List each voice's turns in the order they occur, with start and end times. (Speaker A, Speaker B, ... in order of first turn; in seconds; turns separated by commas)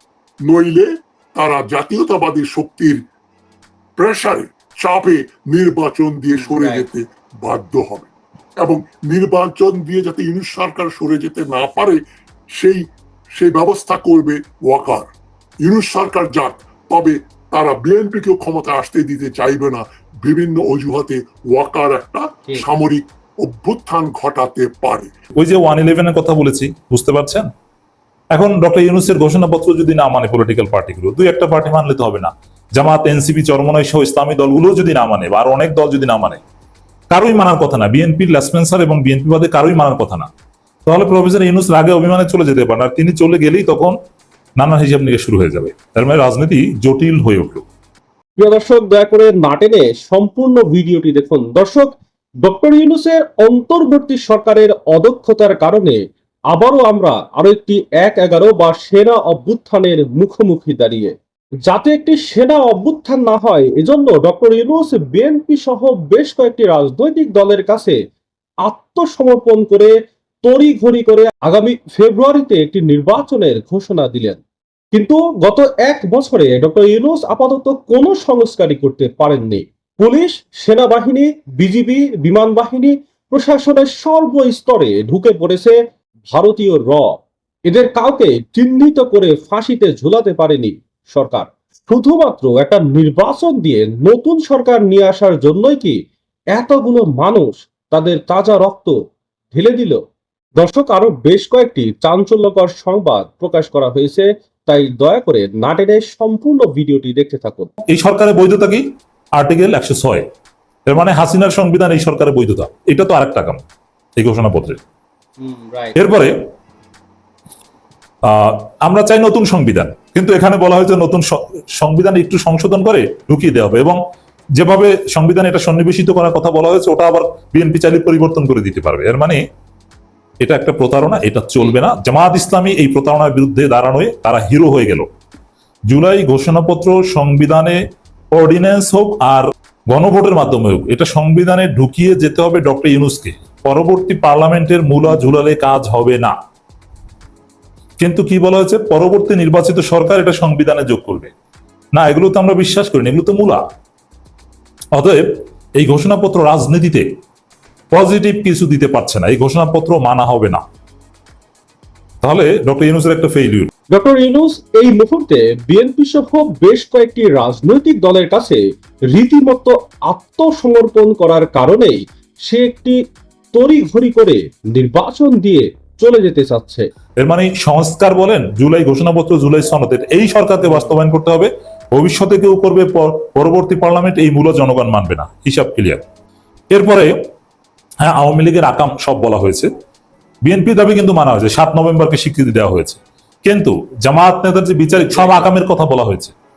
Speaker A: 0.5-3.0, Speaker A: 4.0-12.0, Speaker B: 6.4-6.8, Speaker A: 12.6-12.8, Speaker A: 13.4-15.1, Speaker A: 15.6-25.1, Speaker C: 25.4-27.5, Speaker C: 28.3-36.4, Speaker C: 37.1-40.3, Speaker C: 40.9-44.0, Speaker C: 44.6-47.6, Speaker B: 48.4-56.0, Speaker B: 56.5-61.1, Speaker B: 61.7-68.0, Speaker B: 68.7-69.9, Speaker B: 70.5-74.4, Speaker B: 74.9-85.7, Speaker B: 86.3-87.1, Speaker B: 87.7-96.0, Speaker B: 96.5-98.9, Speaker B: 99.5-100.0, Speaker B: 100.6-107.7, Speaker C: 107.9-108.8, Speaker C: 109.4-110.2, Speaker C: 110.9-113.6, Speaker C: 114.2-114.8, Speaker B: 115.4-116.0, Speaker C: 116.0-116.3, Speaker C: 118.3-121.2, Speaker C: 121.8-124.0, Speaker C: 124.6-129.4, Speaker C: 130.4-135.1, Speaker C: 135.9-137.8, Speaker C: 138.3-146.3, Speaker C: 148.0-151.3, Speaker C: 151.9-153.6, Speaker C: 154.9-155.3, Speaker C: 155.8-157.1, Speaker C: 157.9-160.6, Speaker C: 162.2-163.7, Speaker B: 163.9-168.6, Speaker B: 169.1-173.0, Speaker B: 173.5-176.8, Speaker C: 177.2-186.0, Speaker B: 180.6-181.0, Speaker C: 186.7-187.1, Speaker C: 188.0-189.7, Speaker C: 190.4-196.3, Speaker B: 195.0-195.4